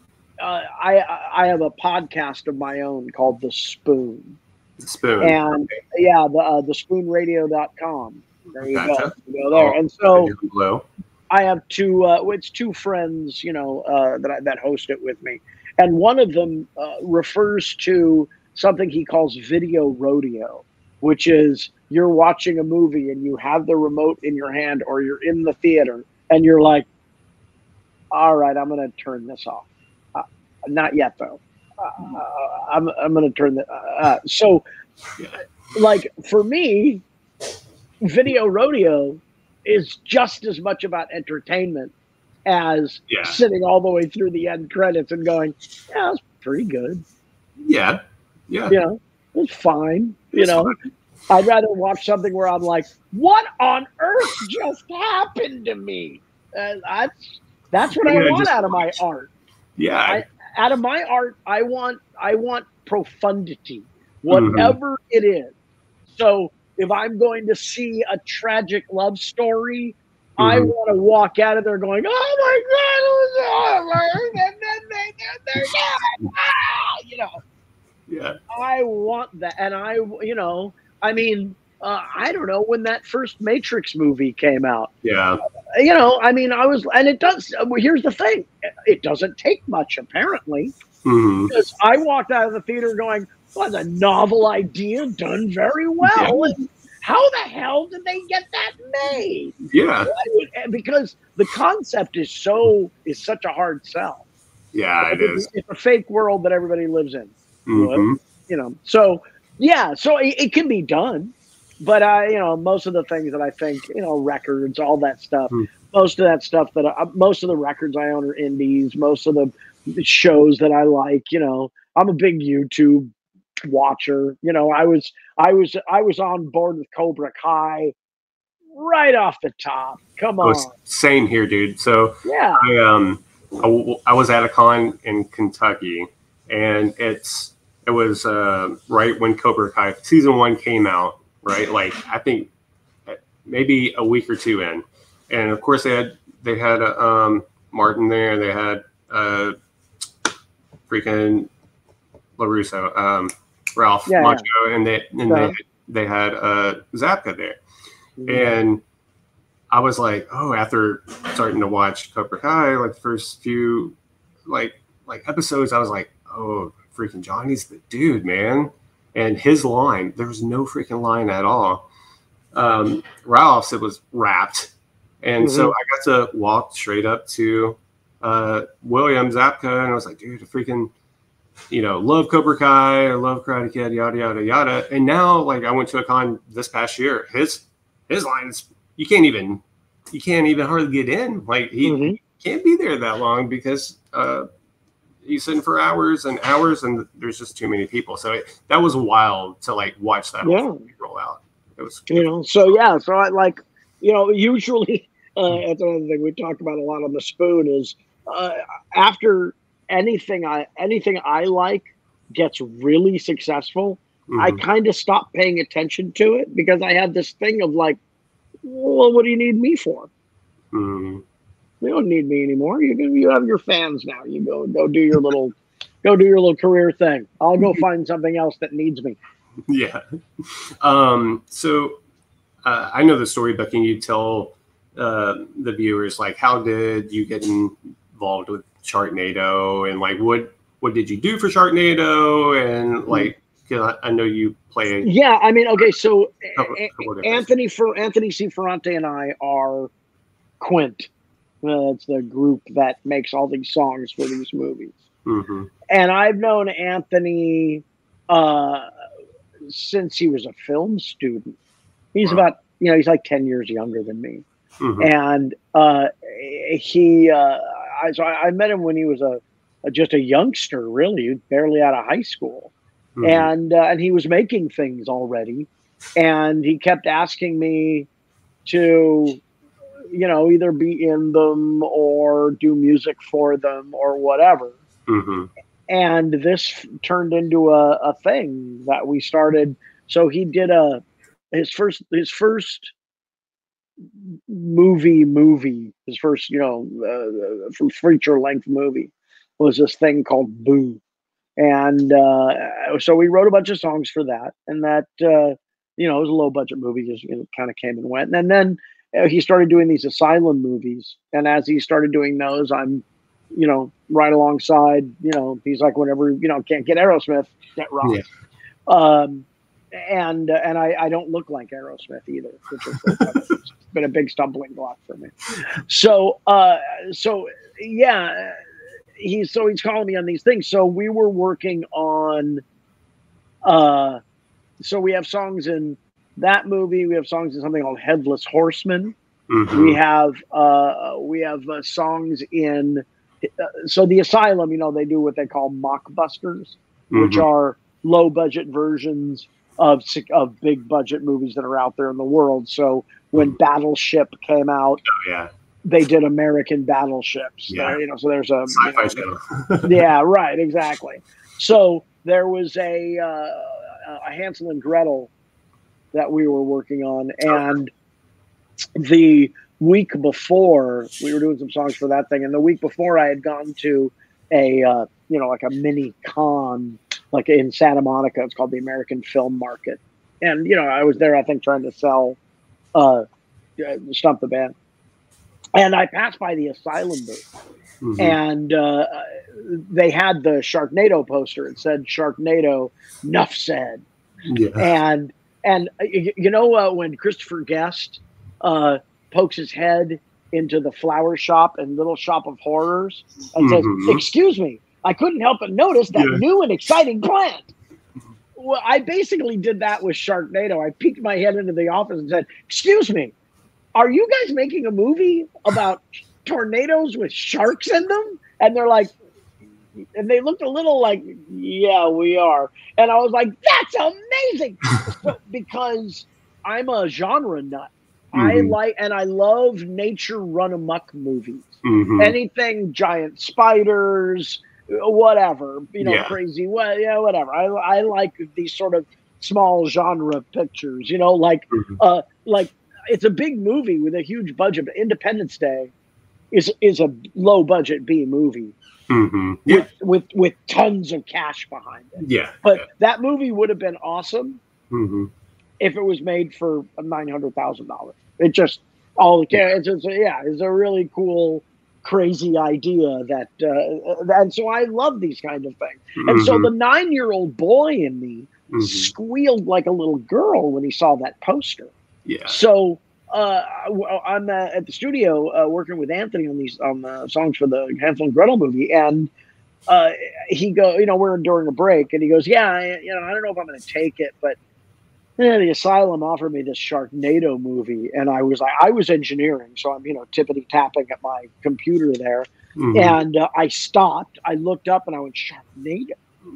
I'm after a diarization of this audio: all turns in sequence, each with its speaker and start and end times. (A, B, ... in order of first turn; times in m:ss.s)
0:00.4-0:04.4 A
0:04.8-0:05.8 B
0:05.2-0:10.3 A
0:08.6-0:10.8 B
0:11.3-0:26.9 A
0:28.1-0:34.6 A
0:35.7-0:37.0 A
0:38.0-0:41.9 A
0:42.4-0:47.0 A
0:43.1-0:43.4 B
0:47.6-0:48.8 B
0:48.7-0:50.7 A
0:50.3-0:50.8 B
0:51.3-0:59.3 A
0:58.0-0:58.9 B
0:59.8-1:00.2 B
1:00.0-1:05.5 A
1:04.3-1:04.8 B
1:06.1-1:17.4 A
1:10.4-1:10.7 B
1:18.1-1:18.4 B
1:18.5-1:24.9 A
1:25.0-1:25.4 B
1:25.7-1:30.7 A
1:31.0-1:31.5 B
1:31.5-1:44.2 A
1:36.0-1:36.5 B
1:39.6-1:40.1 B
1:44.7-1:45.5 B
1:45.0-2:03.1 A
1:47.6-1:48.2 B
2:03.6-2:07.9 A
2:08.7-2:10.7 A
2:10.4-2:22.5 B
2:12.2-2:12.7 A
2:23.0-2:29.5 B
2:30.9-2:31.5 B
2:32.4-2:37.6 B
2:34.1-2:34.4 A
2:35.3-2:35.5 A
2:38.2-2:38.5 A
2:38.3-2:38.8 B
2:39.7-2:44.0 B
2:44.5-2:51.8 B
2:52.5-2:54.7 B
2:55.2-3:00.9 B
2:55.4-2:55.7 A
3:01.7-3:14.5 B
3:11.8-3:12.2 A
3:15.2-3:22.8 B
3:20.4-3:20.8 A
3:22.1-3:38.0 A
3:34.3-3:34.6 B
3:38.6-3:40.1 A
3:40.7-3:41.2 B
3:41.8-3:49.2 A
3:49.7-3:52.0 B
3:52.6-4:05.1 B
4:05.0-4:09.9 A
4:06.6-4:07.5 B
4:10.6-4:11.1 A
4:11.6-4:15.0 A
4:15.2-4:15.7 B
4:15.9-4:18.9 A
4:19.7-4:21.6 A
4:22.1-4:24.4 A
4:24.8-4:25.1 B
4:25.0-4:32.7 A
4:33.2-4:33.5 B
4:33.2-4:38.1 A
4:38.6-4:39.4 A
4:40.1-4:44.8 A
4:45.1-4:45.5 B
4:45.9-4:52.9 A
4:54.2-5:01.0 A
5:01.6-5:18.2 A
5:18.9-5:28.6 A
5:29.2-5:32.6 A
5:33.6-5:34.2 A
5:34.8-5:39.1 A
5:39.5-5:40.0 B
5:39.7-5:55.0 A
5:47.1-5:47.4 B
5:55.1-5:55.5 B
5:55.8-5:59.2 A
5:57.7-5:58.0 B
5:58.7-6:00.0 B
5:59.8-6:05.3 A
6:06.1-6:07.9 A
6:07.5-6:07.7 B
6:09.0-6:22.4 A
6:22.9-6:23.2 A
6:23.8-6:24.7 A
6:25.8-6:27.4 A
6:28.0-6:28.4 B
6:28.2-6:34.0 A
6:34.4-6:34.9 B
6:34.8-6:47.7 A
6:43.6-6:44.2 B
6:46.1-6:46.4 B
6:48.6-6:53.3 A
6:53.9-6:59.1 A
7:00.1-7:25.9 A
7:08.3-7:08.7 B
7:11.8-7:12.3 B
7:16.0-7:16.4 B
7:21.7-7:22.0 B
7:26.5-7:28.7 A
7:29.1-7:29.9 B
7:29.7-7:34.6 A
7:32.2-7:32.9 B
7:34.9-7:35.3 B
7:35.8-7:51.9 A
7:46.2-7:46.7 B
7:48.7-7:49.1 B
7:52.2-7:52.6 B
7:52.5-7:59.3 A
7:59.9-8:04.6 A
8:05.4-8:16.1 A
8:12.8-8:13.2 B